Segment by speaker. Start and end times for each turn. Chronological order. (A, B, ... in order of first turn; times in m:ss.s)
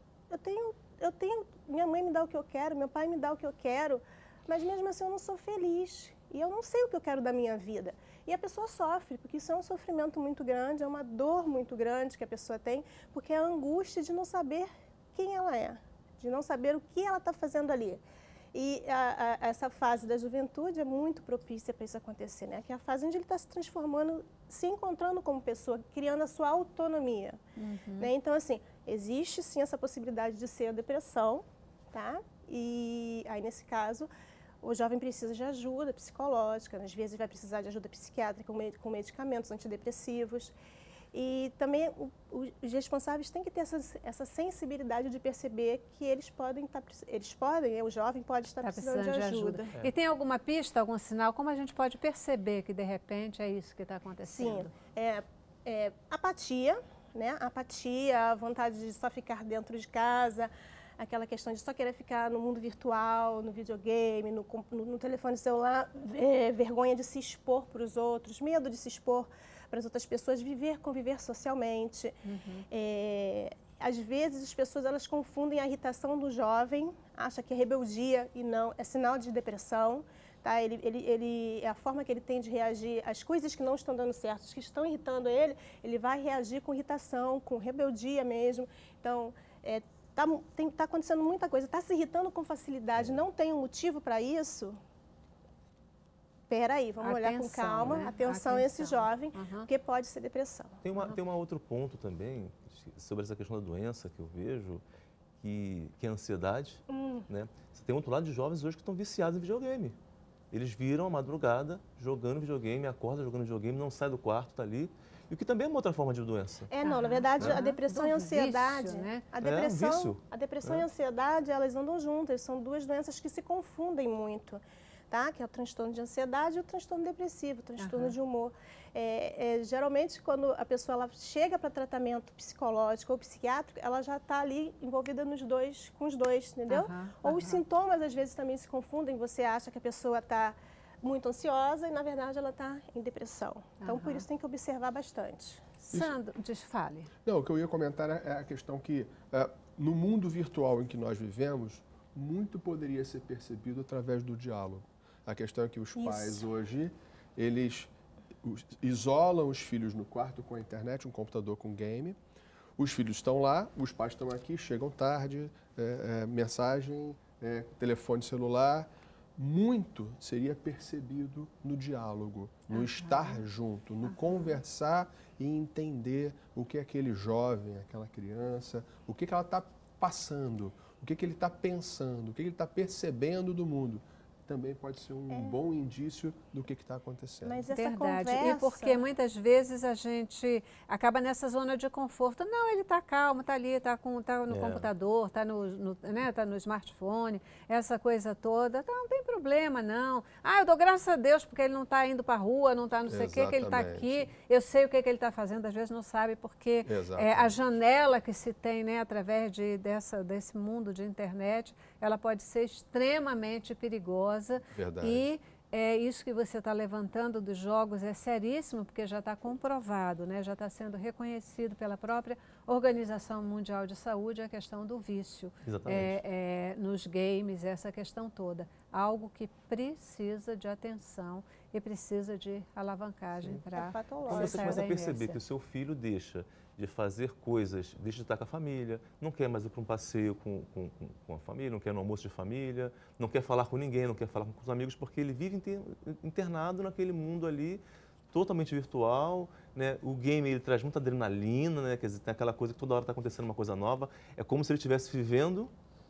0:00.3-0:18.0 A
0:18.5-0:27.4 A
0:27.6-0:28.1 B
0:28.0-0:34.1 A
0:34.6-0:40.5 A
0:41.1-0:49.7 A
0:48.6-0:54.7 B
0:54.3-1:12.2 A
1:12.2-1:12.6 B
1:12.7-1:34.8 A
1:36.5-1:40.8 A
1:37.0-1:39.7 B
1:40.8-1:44.8 C
1:45.4-1:50.0 C
1:46.9-1:47.3 A
1:50.5-1:56.7 C
1:56.7-2:25.6 A
1:56.8-1:59.2 B
1:59.4-2:00.9 C
2:07.8-2:08.2 B
2:16.7-2:17.6 B
2:23.8-2:24.2 B
2:25.8-2:27.1 B
2:27.2-2:37.9 D
2:36.0-2:36.4 A
2:38.4-2:42.2 D
2:42.8-3:07.6 D
2:52.7-2:53.4 B
3:05.3-3:05.6 A
3:07.4-3:09.0 A
3:07.7-3:55.4 B
3:14.5-3:14.9 C
3:23.1-3:24.3 D
3:26.8-3:27.6 D
3:34.7-3:35.3 D
3:45.6-3:46.2 C
3:53.7-3:54.8 A
3:54.3-4:15.7 C